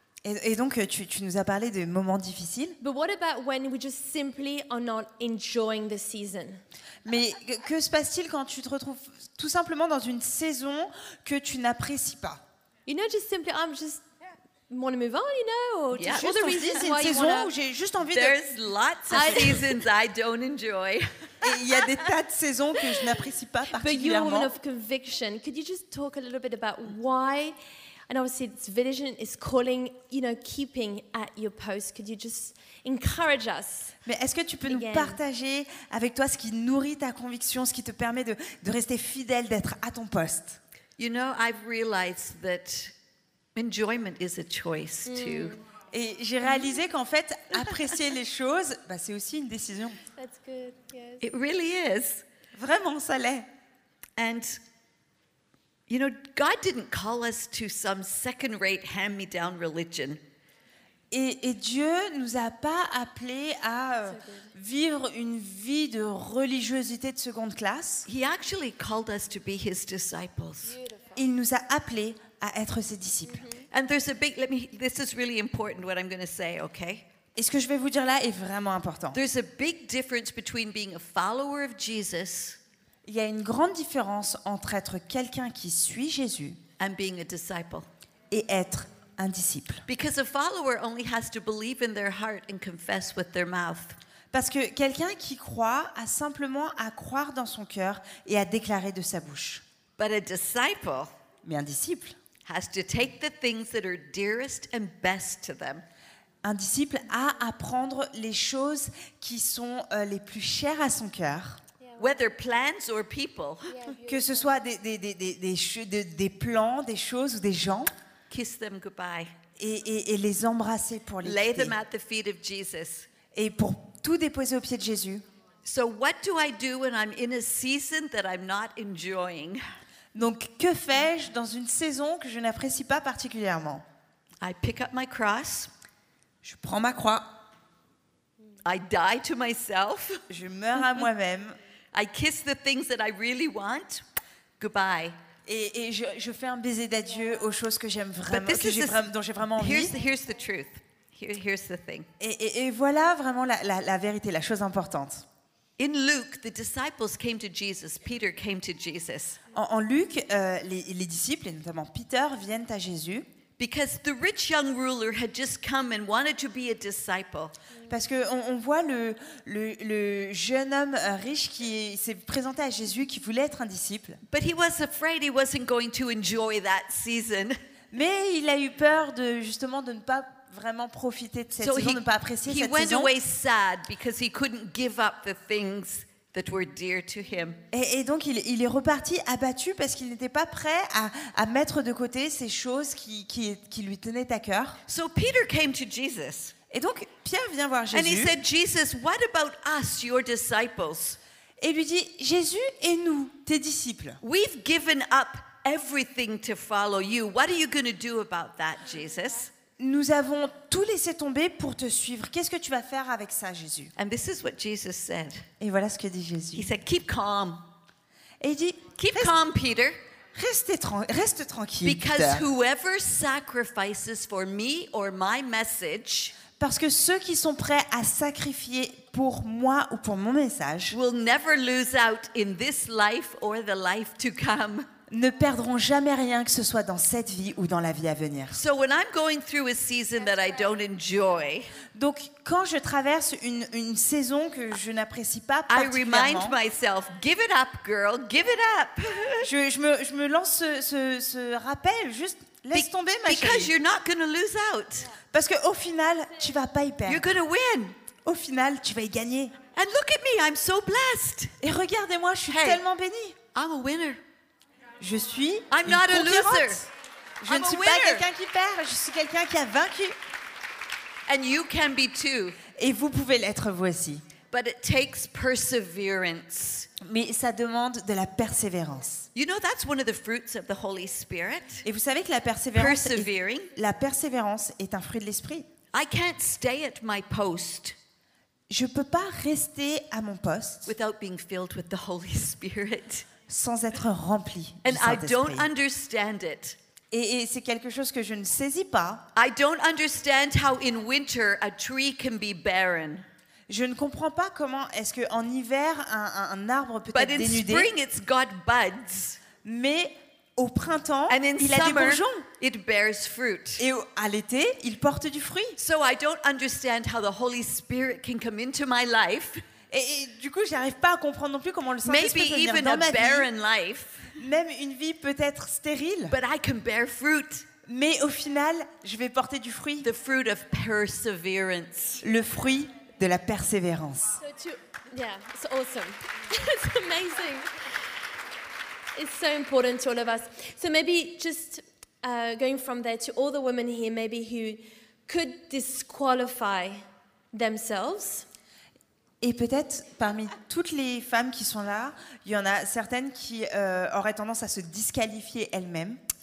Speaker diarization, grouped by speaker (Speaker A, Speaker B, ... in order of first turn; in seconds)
Speaker A: 0.2-2.8, 7.0-12.4, 16.1-18.4, 19.1-19.6, 21.4-24.6, 34.1-40.6, 45.9-50.0, 52.5-53.5, 61.1-68.1, 71.2-73.5, 77.3-79.2, 83.1-86.6, 88.3-89.8, 94.3-99.6, 101.4-102.2, 106.4-111.6, 113.9-117.9, 119.6-121.8, 123.3-125.2, 130.1-133.8, 136.4-137.4, 140.3-141.6, 145.5-149.9, 152.2-155.2, 159.5-163.3, 167.9-174.2, 177.9-183.1, 187.7-194.8, 196.7-198.3, 201.6-204.2, 209.8-213.9, 215.6-216.7, 218.4-219.4, 220.3-222.5, 226.6-231.0, 235.1-238.6, 241.9-246.6, 249.4-253.7, 255.3-257.3, 258.2-259.6, 261.6-263.4, 265.0-266.9, 267.4-270.2, 272.8-274.2, 277.0-279.3, 281.9-285.7, 288.7-290.9, 293.5-295.7, 297.1-299.3, 303.7-307.9, 309.6-312.5, 313.8-315.8, 319.9-323.5, 324.4-326.4, 327.9-330.1, 332.2-334.4, 349.4-356.2
Speaker B: 2.8-6.6, 12.9-14.1, 14.7-17.5, 19.1-19.6, 23.7-27.6, 28.1-33.9, 34.7-35.2, 45.1-45.6, 50.2-51.3, 64.1-64.5, 70.8-71.1, 73.3-73.7, 113.7-114.2, 334.4-337.7, 339.1-348.5
Speaker C: 15.9-16.9, 18.1-22.0, 41.0-42.9, 43.5-45.6, 51.2-52.2, 54.2-54.6, 55.9-60.2, 68.1-70.8, 73.7-77.0, 79.1-82.6, 86.8-87.9, 89.9-94.0, 100.0-101.1, 102.5-105.8, 112.0-113.8, 118.3-119.3, 121.2-123.1, 125.7-129.6, 134.4-135.7, 138.6-140.2, 141.9-144.0, 144.6-145.2, 148.3-152.1, 155.8-159.4, 163.6-167.5, 174.3-177.6, 181.6-187.6, 194.9-196.5, 197.9-201.2, 204.2-209.5, 214.0-215.4, 216.6-217.7, 219.0-220.0, 221.8-226.4, 230.9-234.9, 238.5-241.8, 245.7-249.5, 252.7-255.1, 257.1-257.9, 259.7-261.5, 262.5-262.8, 263.5-264.2, 265.7-266.9, 267.5-268.3, 271.3-272.6, 274.5-276.9, 279.4-281.9, 282.8-283.7, 285.9-287.9, 290.9-293.3, 294.8-296.8, 299.4-303.2, 307.1-309.4, 311.3-313.9, 315.8-319.6, 322.0-324.4, 326.3-327.7, 330.0-332.2